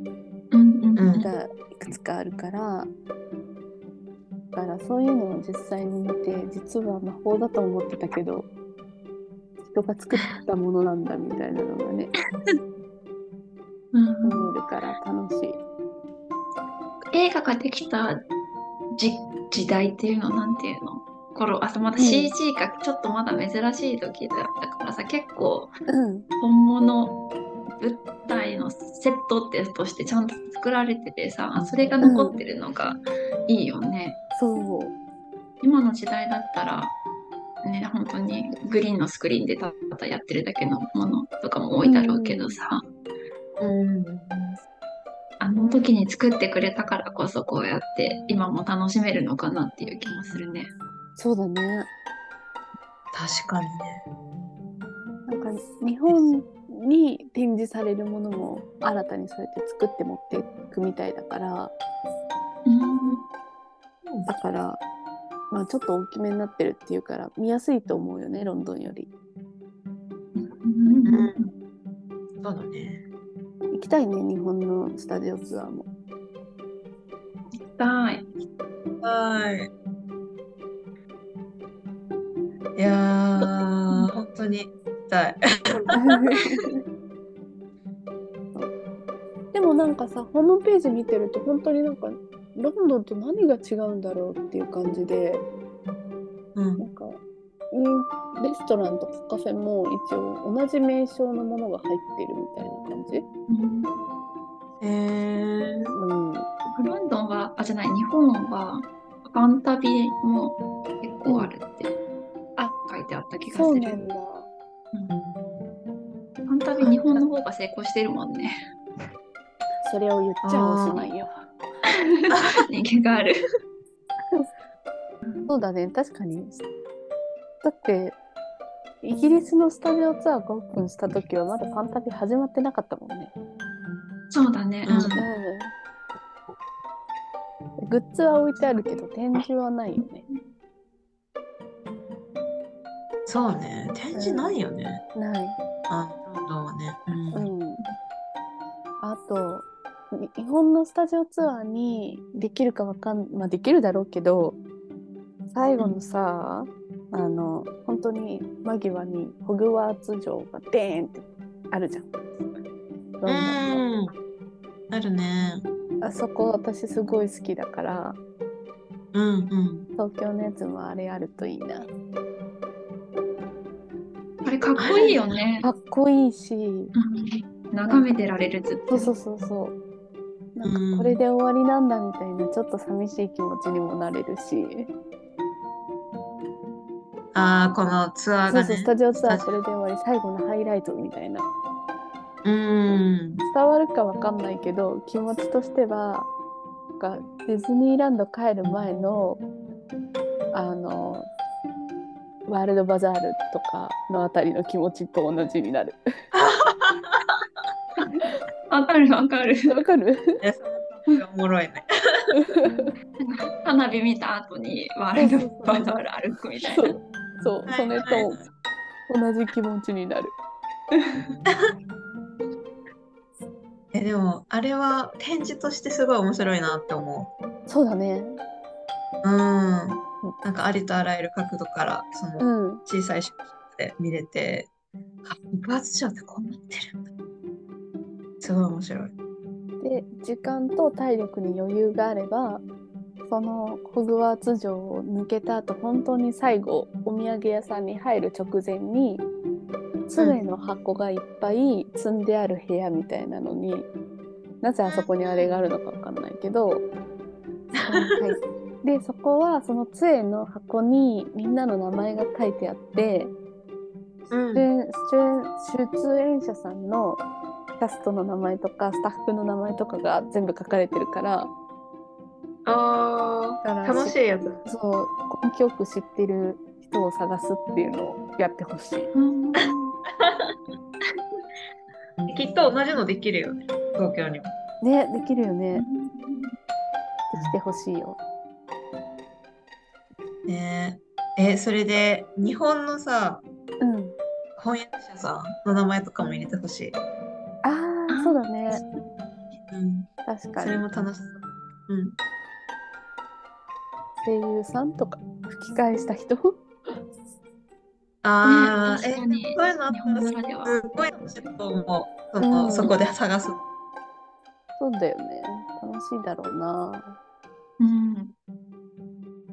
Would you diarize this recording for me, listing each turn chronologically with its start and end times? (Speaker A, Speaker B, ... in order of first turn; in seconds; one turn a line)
Speaker A: 0.5-1.3
Speaker B: 1.0-1.3
Speaker C: 1.2-2.9
Speaker C: 4.5-8.5
Speaker C: 9.7-12.1
Speaker A: 13.9-14.5
Speaker C: 14.2-15.6
Speaker A: 17.1-18.2
Speaker A: 18.9-25.7
Speaker C: 22.0-22.4
Speaker C: 25.9-26.3
Speaker A: 26.4-27.2
Speaker A: 27.8-34.2
Speaker C: 32.0-32.4
Speaker C: 34.4-35.0
Speaker A: 35.6-37.0
Speaker A: 37.6-42.8
Speaker C: 41.8-42.5
Speaker B: 43.6-44.6
Speaker A: 45.4-50.7
Speaker C: 51.2-51.9
Speaker B: 53.1-54.0
Speaker C: 55.3-61.7
Speaker A: 62.7-63.2
Speaker B: 64.0-64.3
Speaker C: 64.3-64.8
Speaker C: 65.5-69.1
Speaker A: 70.3-71.5
Speaker B: 71.1-71.3
Speaker B: 72.4-73.0
Speaker C: 73.7-75.9
Speaker A: 77.6-78.3
Speaker B: 79.0-79.7
Speaker B: 82.8-86.0
Speaker C: 85.9-86.8
Speaker C: 89.5-95.4
Speaker B: 96.5-96.9
Speaker C: 96.8-97.2
Speaker C: 97.7-103.3
Speaker A: 103.5-103.9
Speaker B: 104.8-106.0
Speaker C: 105.9-106.5
Speaker A: 106.7-112.0
Speaker C: 111.3-111.5
Speaker A: 112.8-114.0
Speaker C: 113.5-114.5
Speaker A: 116.5-118.5
Speaker C: 116.8-117.2
Speaker C: 119.8-121.3
Speaker B: 120.4-121.1
Speaker A: 121.9-123.4
Speaker A: 125.2-125.5
Speaker C: 125.5-126.6
Speaker C: 127.6-128.2
Speaker C: 129.0-133.3
Speaker A: 134.3-135.3
Speaker B: 134.9-135.2
Speaker C: 135.2-135.7
Speaker C: 137.8-140.2
Speaker B: 143.3-145.0
Speaker C: 144.1-144.6
Speaker C: 145.2-145.6
Speaker B: 145.9-147.5
Speaker C: 147.3-147.8
Speaker C: 149.0-154.6
Speaker C: 155.5-162.1
Speaker C: 163.2-163.8
Speaker B: 163.3-164.1
Speaker B: 164.9-165.7
Speaker C: 166.0-168.2
Speaker B: 169.1-169.9
Speaker C: 170.0-171.9
Speaker A: 174.4-175.7
Speaker B: 174.8-175.2
Speaker C: 175.6-176.9
Speaker A: 176.9-179.1
Speaker C: 177.8-178.2
Speaker C: 178.9-179.8
Speaker C: 180.6-184.9
Speaker B: 180.6-181.2
Speaker B: 187.3-189.5
Speaker C: 188.5-191.5
Speaker B: 192.4-193.4
Speaker C: 193.4-196.3
Speaker C: 197.0-199.4
Speaker C: 200.5-201.3
Speaker C: 202.5-206.0
Speaker B: 206.3-207.2
Speaker A: 208.7-209.8
Speaker C: 209.7-210.4
Speaker B: 210.4-212.3
Speaker C: 212.3-212.9
Speaker A: 213.2-216.9
Speaker C: 215.2-215.9
Speaker C: 216.6-218.4
Speaker B: 217.7-218.4
Speaker C: 219.1-220.4
Speaker B: 223.9-227.3
Speaker C: 227.7-228.4
Speaker B: 229.2-234.7
Speaker C: 232.4-232.8
Speaker B: 235.2-237.1
Speaker B: 238.4-239.1
Speaker C: 239.8-242.6
Speaker C: 243.3-249.2
Speaker C: 250.1-253.9
Speaker C: 254.6-256.9
Speaker B: 254.9-255.5
Speaker B: 257.7-258.2
Speaker C: 257.8-263.3
Speaker B: 264.3-264.7
Speaker C: 264.5-267.2
Speaker C: 267.8-271.5
Speaker B: 272.6-274.6
Speaker C: 273.6-279.1
Speaker A: 279.1-280.0
Speaker B: 280.2-280.5
Speaker B: 282.3-284.5
Speaker C: 284.8-285.9
Speaker A: 285.8-286.6
Speaker C: 287.3-288.2
Speaker B: 290.5-293.4
Speaker C: 293.8-294.2
Speaker B: 294.6-297.0
Speaker C: 297.6-298.8
Speaker A: 298.1-299.0
Speaker B: 299.7-300.1
Speaker C: 300.2-300.9
Speaker B: 300.6-302.2
Speaker C: 304.2-306.6
Speaker B: 308.2-313.6
Speaker A: 308.4-310.8
Speaker C: 312.4-313.0
Speaker C: 314.8-317.2
Speaker A: 317.8-318.3